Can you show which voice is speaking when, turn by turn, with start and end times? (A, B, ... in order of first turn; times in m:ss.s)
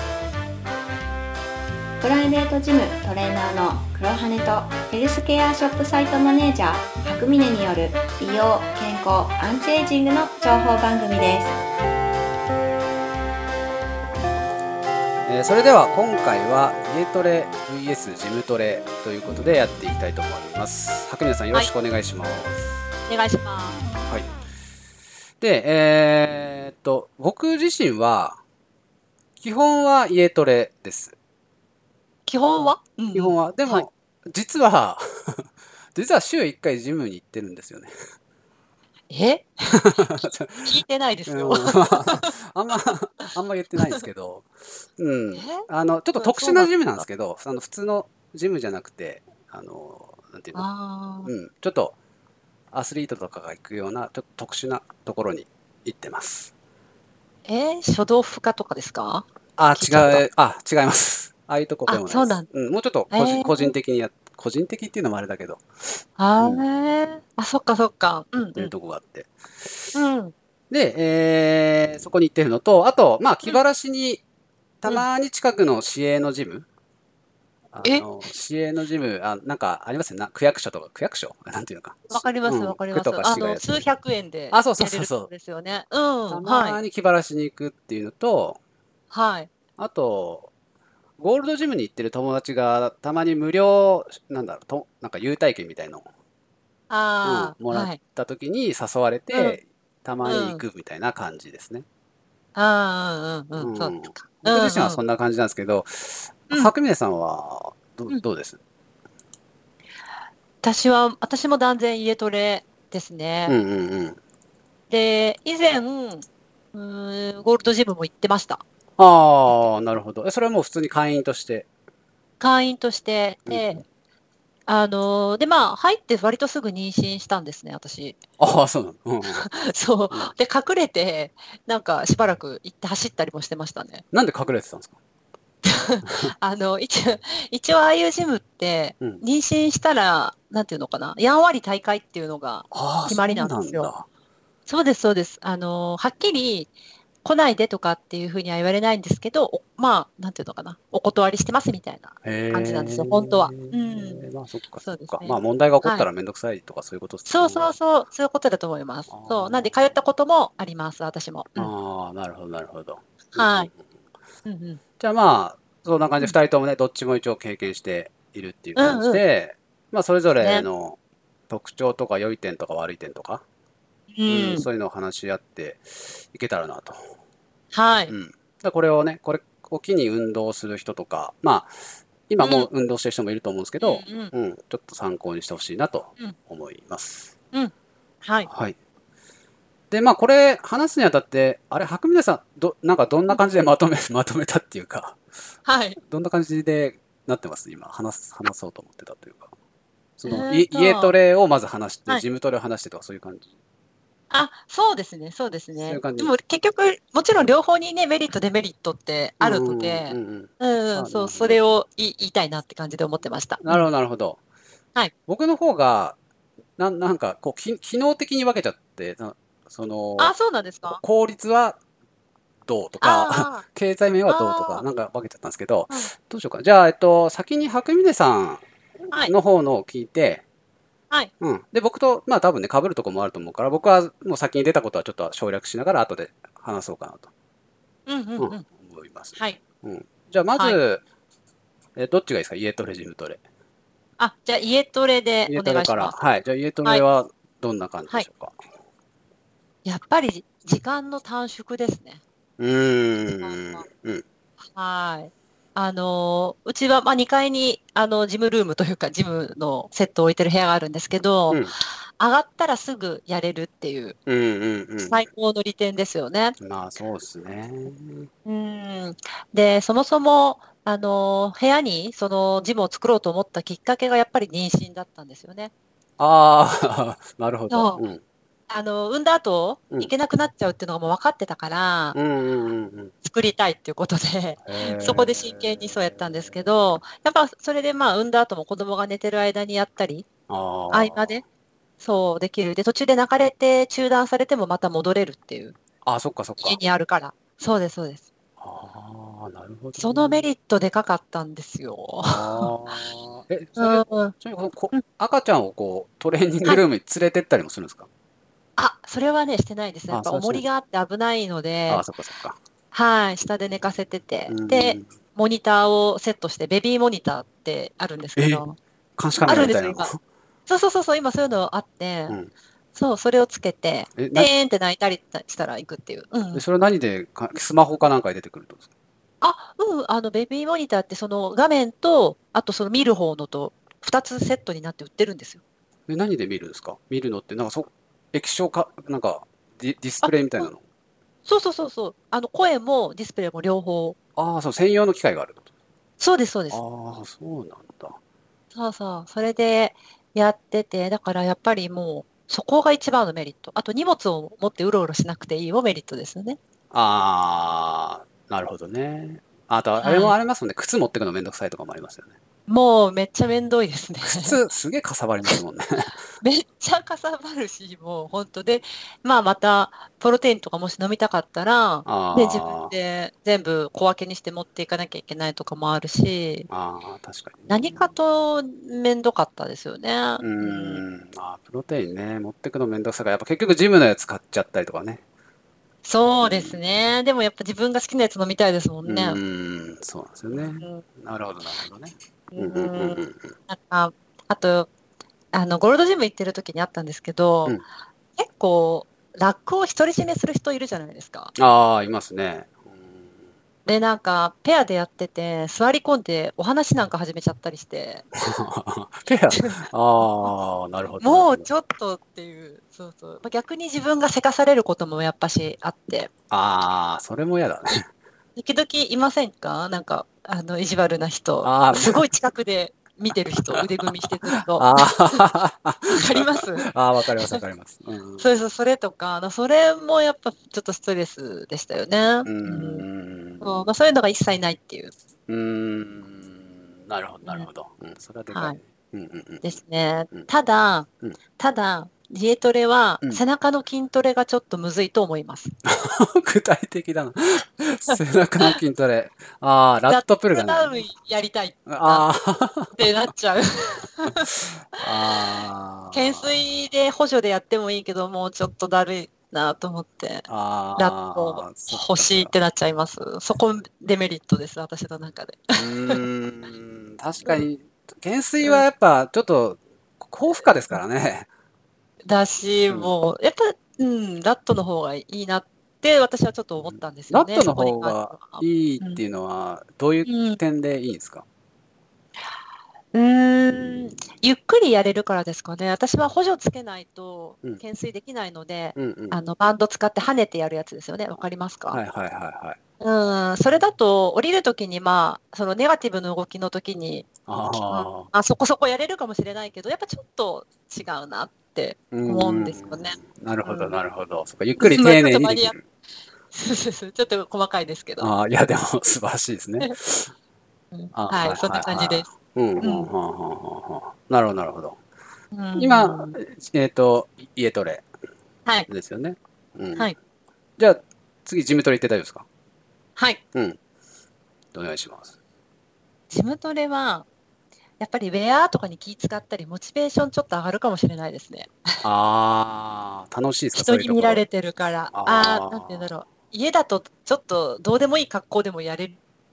0:02.0-0:11.5 A
0:15.2-0:22.7 B
0:23.1-0:23.9 C
0:24.0-0:24.3 B
0:25.4-0:28.4 B
0:29.4-0:31.1 B
0:32.2-0:33.8 C
0:33.1-0:35.4 B
0:36.0-0:37.9 B
0:39.1-0:39.8 C
0:39.7-0:50.7 B
0:40.6-0:42.3 C
0:45.3-0:45.6 C
0:46.1-0:46.8 C
0:50.5-0:51.3 C
0:51.2-0:52.0 B
0:52.7-0:56.5 B
0:57.4-1:00.2 C
0:59.6-1:05.6 B
1:01.9-1:02.5 C
1:03.1-1:03.7 C
1:06.2-1:08.7 C
1:06.4-1:06.6 B
1:08.6-1:10.0 B
1:09.9-1:10.3 C
1:10.7-1:14.2 B
1:14.8-1:16.7 B
1:17.7-1:23.9 B
1:22.1-1:26.8 C
1:24.5-1:25.3 B
1:26.3-1:28.6 B
1:29.1-1:29.5 C
1:29.8-1:30.5 B
1:31.2-1:36.0 B
1:36.9-1:38.0 C
1:37.2-1:41.8 B
1:39.3-1:39.6 C
1:40.2-1:40.6 C
1:42.6-1:45.0 C
1:43.6-1:48.6 B
1:50.6-1:53.6 C
1:53.5-1:54.2 B
1:54.9-1:58.6 C
1:59.0-2:01.7 B
2:02.4-2:03.8 C
2:03.5-2:03.8 B
2:04.7-2:08.2 C
2:08.4-2:09.5 B
2:09.2-2:14.0 C
2:14.1-2:15.0 B
2:15.6-2:23.9 C
2:16.0-2:16.3 B
2:22.7-2:24.1 B
2:24.7-2:26.7 C
2:27.2-2:34.3 C
2:32.2-2:37.7 B
2:34.8-2:36.1 C
2:37.2-2:41.7 C
2:39.1-2:39.8 B
2:41.6-2:43.8 B
2:43.3-2:43.7 C
2:44.4-2:44.8 C
2:45.0-2:51.0 B
2:48.8-2:49.2 C
2:50.4-2:50.7 C
2:51.5-2:53.4 B
2:54.1-2:54.7 C
2:54.2-2:57.0 B
2:57.7-2:58.1 C
2:58.1-3:01.7 B
3:02.3-3:07.3 B
3:02.4-3:02.7 C
3:03.8-3:04.3 C
3:07.5-3:08.5 C
3:08.5-3:08.8 B
3:09.9-3:15.2 B
3:15.6-3:16.0 C
3:16.0-3:19.5 B
3:20.2-3:23.5 B
3:20.2-3:21.2 C
3:24.3-3:33.9 C
3:25.8-3:26.3 B
3:29.4-3:31.6 B
3:33.6-3:34.4 B
3:35.3-3:36.2 B
3:36.8-3:41.8 B
3:40.2-3:41.0 C
3:42.7-3:48.6 B
3:43.0-3:43.6 C
3:44.2-3:44.8 C
3:49.2-3:50.4 B
3:51.4-3:57.3 B
3:58.1-3:58.6 C
3:58.4-4:01.0 B
3:59.3-3:59.6 C
4:02.0-4:03.4 B
4:04.2-4:06.1 C
4:05.5-4:08.6 B
4:09.8-4:12.2 C
4:12.6-4:14.2 B
4:13.2-4:13.8 C
4:14.7-4:24.2 C
4:24.3-4:25.2 B
4:25.0-4:26.6 C
4:26.6-4:28.3 B
4:28.4-4:35.7 C
4:36.2-4:38.2 B
4:37.7-4:38.0 C
4:38.7-4:42.2 C
4:42.1-4:43.1 B
4:43.2-4:50.3 C
4:44.7-4:46.2 B
4:50.5-4:51.4 B
4:50.9-4:51.4 C
4:52.0-4:55.8 C
4:56.0-4:56.8 B
4:56.6-4:58.3 C
4:58.6-5:00.5 B
5:00.0-5:02.7 C
5:02.2-5:08.1 B
5:03.8-5:04.4 C
5:08.8-5:12.0 C
5:10.1-5:10.6 B
5:11.9-5:12.6 B
5:12.9-5:18.8 C
5:14.5-5:15.1 B
5:18.4-5:18.6 B
5:19.2-5:20.2 B
5:19.4-5:20.1 C
5:20.7-5:22.4 C
5:22.9-5:26.6 C
5:24.2-5:24.5 B
5:26.5-5:28.9 B
5:29.4-5:35.6 C
5:36.1-5:40.8 B
5:40.2-5:40.7 C
5:41.4-5:44.2 C
5:44.4-5:45.6 B
5:46.2-5:46.8 C
5:46.7-5:48.2 B
5:48.7-5:56.6 C
5:56.9-6:02.4 B
6:00.0-6:00.4 C
6:02.7-6:04.6 C
6:04.2-6:06.1 B
6:06.4-6:16.7 C
6:12.0-6:12.9 B
6:16.7-6:18.2 B
6:17.7-6:21.0 C
6:20.4-6:25.2 B
6:26.0-6:29.4 C
6:26.4-6:26.8 B
6:29.1-6:33.5 B
6:30.6-6:31.0 C
6:32.5-6:34.9 C
6:35.5-6:37.8 C
6:38.4-6:41.5 C
6:41.6-6:43.3 B
6:43.8-6:48.3 C
6:48.4-6:51.7 B
6:51.2-6:56.3 C
6:56.5-6:58.1 B
6:58.6-7:05.5 C
7:01.6-7:02.3 B
7:04.5-7:08.5 B
7:06.1-7:06.9 C
7:08.4-7:13.1 C
7:12.4-7:13.9 B
7:13.6-7:15.1 C
7:15.5-7:19.8 B
7:18.5-7:18.8 C
7:19.6-7:25.7 C
7:25.9-7:31.0 B
7:30.1-7:32.3 C
7:31.9-7:33.3 B
7:33.0-7:35.0 C
7:35.0-7:36.6 B
7:36.1-7:40.4 C
7:40.5-7:42.5 B
7:41.0-7:46.2 C
7:45.8-7:51.5 B
7:52.2-7:59.2 C
7:56.8-8:01.4 B
8:00.2-8:00.6 C
8:03.1-8:12.0 C
8:03.7-8:04.0 B
8:09.0-8:09.4 B
8:11.9-8:12.8 B
8:13.0-8:17.3 C
8:17.5-8:18.3 B
8:17.8-8:24.0 C
8:22.1-8:25.8 B
8:24.8-8:25.8 C
8:26.5-8:28.3 C
8:28.2-8:30.3 B
8:30.9-8:32.3 C
8:31.1-8:35.0 B
8:32.8-8:33.1 C
8:35.5-8:36.4 C
8:35.8-8:38.0 B
8:38.9-8:40.1 B
8:40.8-8:42.4 B
8:43.2-8:43.4 C
8:44.7-8:45.4 B
8:46.3-8:47.3 C
8:48.0-8:52.0 C
8:52.0-8:54.4 B
8:53.8-8:59.2 C
8:55.1-8:56.1 B